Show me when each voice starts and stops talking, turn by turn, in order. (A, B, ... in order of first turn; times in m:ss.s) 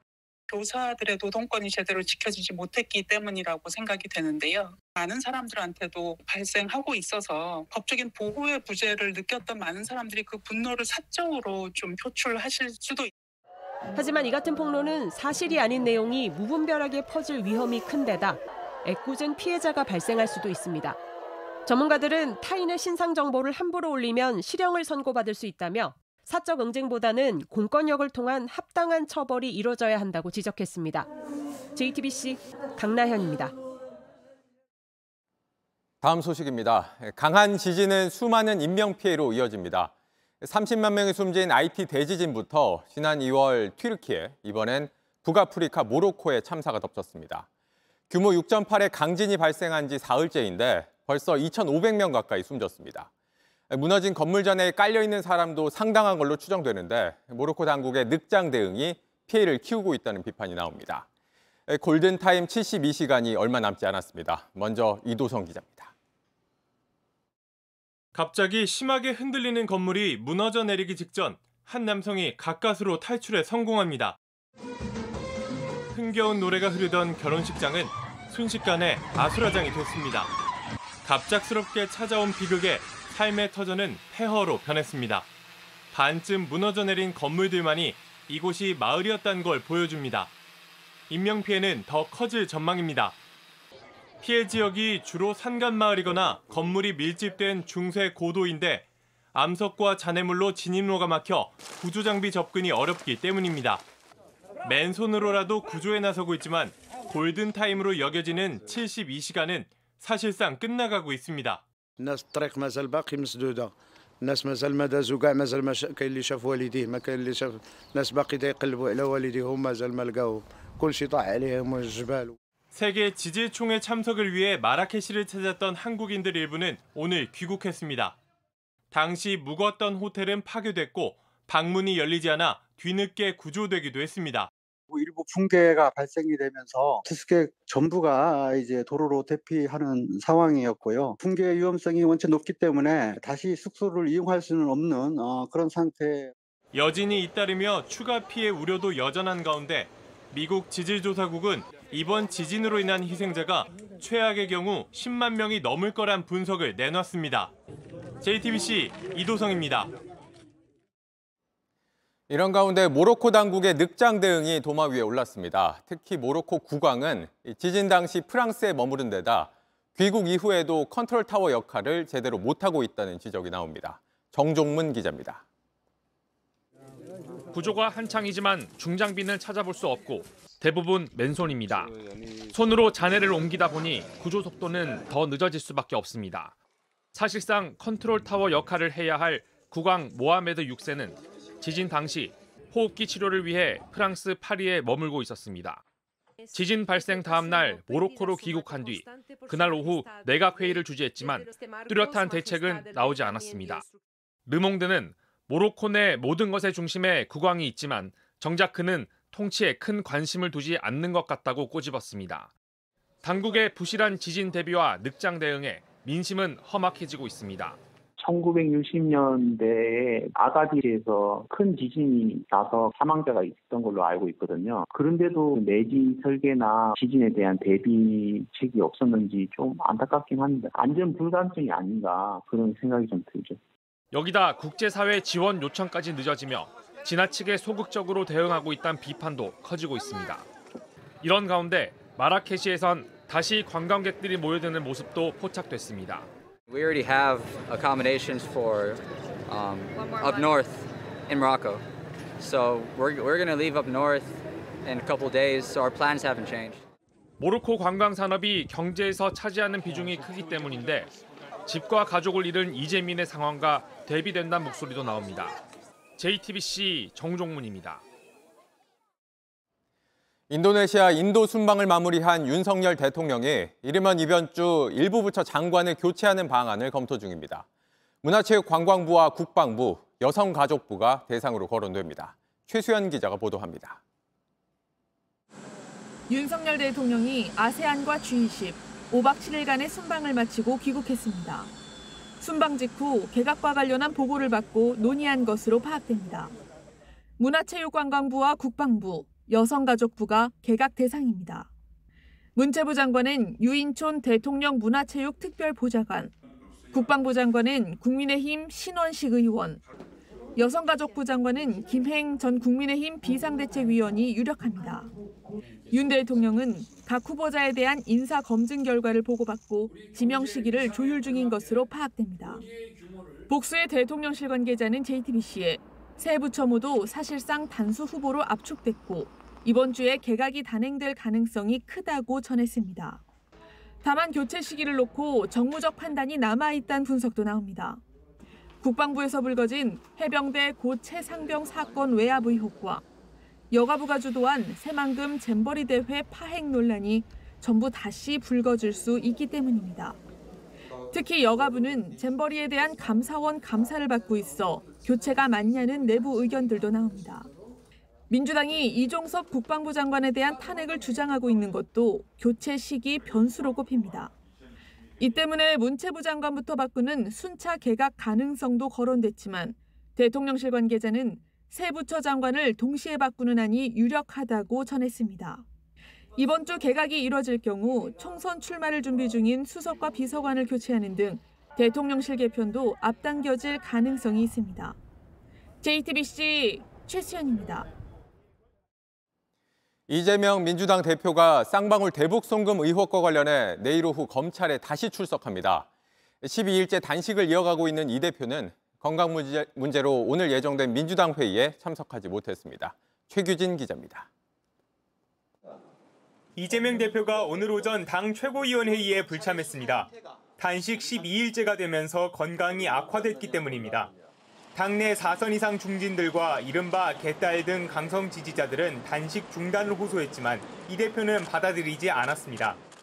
0:00.6-0:13.0 A
0:14.0-0:21.0 B
0:21.7-0:31.1 B
0:31.8-0:33.6 B
0:36.0-0:47.5 C
0:48.1-0:53.1 C
0:53.7-1:01.1 C
1:01.7-1:05.9 C
1:08.1-1:14.2 D
1:15.9-1:20.3 D
1:21.0-1:25.3 D
1:25.9-1:30.3 D
1:31.1-1:33.2 D
1:34.2-1:43.8 D
1:44.6-1:51.6 D
1:52.1-1:53.7 E
1:54.3-2:02.3 E
2:02.7-2:08.2 D
2:08.9-2:14.5 D
2:14.9-2:26.3 F
2:26.7-2:37.5 D
2:38.2-2:39.9 D
2:42.3-2:55.4 C
2:57.5-3:01.9 G
3:02.5-3:06.5 G
3:07.2-3:15.8 G
3:16.6-3:23.8 G
3:24.5-3:32.5 G
3:33.2-3:37.8 G
3:38.2-3:53.6 H
3:54.1-4:00.5 G
4:01.2-4:06.3 G
4:06.7-4:11.8 I
4:12.4-4:16.8 I
4:17.4-4:21.1 G
4:21.7-4:25.5 G
4:26.2-4:28.0 G
4:30.5-4:37.7 C
4:38.2-4:44.0 C
4:46.3-4:51.7 J
4:52.4-4:56.5 J
4:57.4-5:01.7 J
5:02.6-5:06.3 J
5:06.9-5:09.8 J
5:10.6-5:15.1 J
5:15.9-5:22.7 J
5:23.5-5:33.2 J
5:34.0-5:38.0 J
5:38.8-5:43.0 J
5:43.7-5:50.2 J
5:51.1-5:57.5 J
5:58.3-6:04.3 J
6:05.2-6:15.6 J
6:16.4-6:25.0 J
6:25.8-6:27.9 J
6:30.1-6:35.9 C
6:36.4-6:44.3 C
6:46.6-6:54.1 K
6:54.8-7:02.8 K